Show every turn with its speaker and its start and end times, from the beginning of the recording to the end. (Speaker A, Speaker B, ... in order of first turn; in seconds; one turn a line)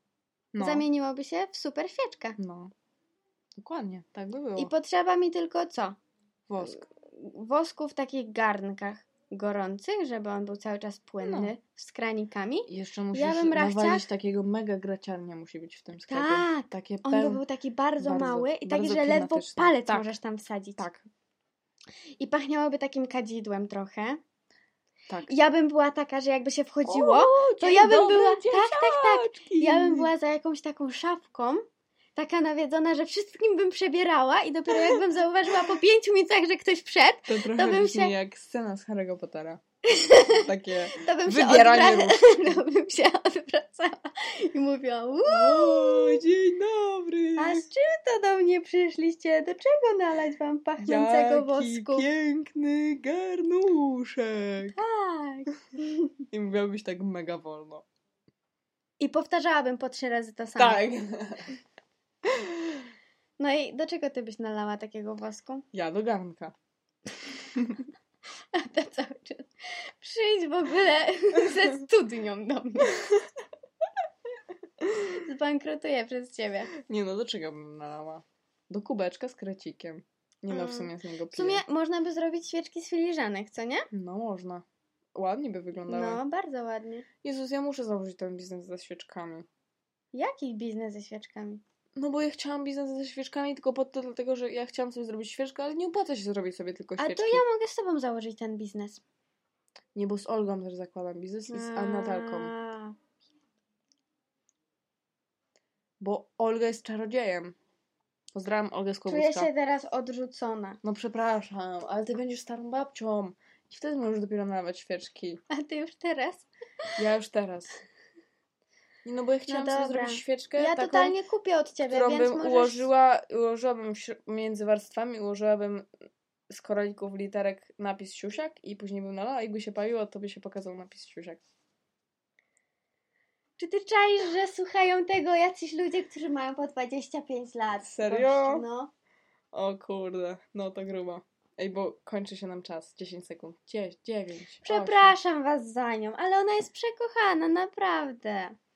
Speaker A: 0.5-0.8
Speaker B: 0.6-2.4
Speaker A: 2.4-2.7
Speaker A: 3.6-4.7
Speaker B: 4.6-6.0
Speaker A: 6.5-6.8
Speaker B: 6.6-14.1
Speaker A: 11.2-11.5
Speaker A: 12.7-17.4
Speaker B: 16.1-20.8
Speaker A: 18.0-20.1
Speaker A: 20.8-21.1
Speaker B: 22.2-24.2
Speaker B: 25.3-31.6
Speaker A: 26.9-30.1
Speaker B: 32.2-38.1
Speaker A: 37.3-39.6
Speaker B: 39.9-40.4
Speaker A: 40.3-42.6
Speaker B: 41.0-46.2
Speaker A: 45.3-47.6
Speaker B: 47.4-52.1
Speaker A: 50.8-54.8
Speaker B: 54.7-55.5
Speaker A: 56.3-57.9
Speaker B: 59.0-60.9
Speaker A: 60.6-61.5
Speaker B: 63.4-65.7
Speaker A: 65.7-66.5
Speaker B: 68.5-73.0
Speaker B: 75.1-76.7
Speaker A: 76.8-81.6
Speaker B: 80.5-83.9
Speaker A: 83.9-84.6
Speaker A: 85.2-86.2
Speaker B: 85.9-87.1
Speaker A: 87.2-89.5
Speaker B: 90.1-91.6
Speaker A: 92.0-97.4
Speaker B: 97.0-99.0
Speaker A: 100.0-102.5
Speaker B: 101.5-103.0
Speaker A: 106.0-107.5
Speaker A: 108.3-109.5
Speaker B: 109.1-110.8
Speaker A: 110.8-115.4
Speaker B: 115.5-116.5
Speaker A: 117.0-117.8
Speaker A: 119.0-121.2
Speaker B: 119.5-122.9
Speaker A: 121.9-125.9
Speaker A: 126.5-131.4
Speaker B: 133.6-138.9
Speaker A: 137.8-138.6
Speaker A: 139.5-145.2
Speaker B: 144.6-148.6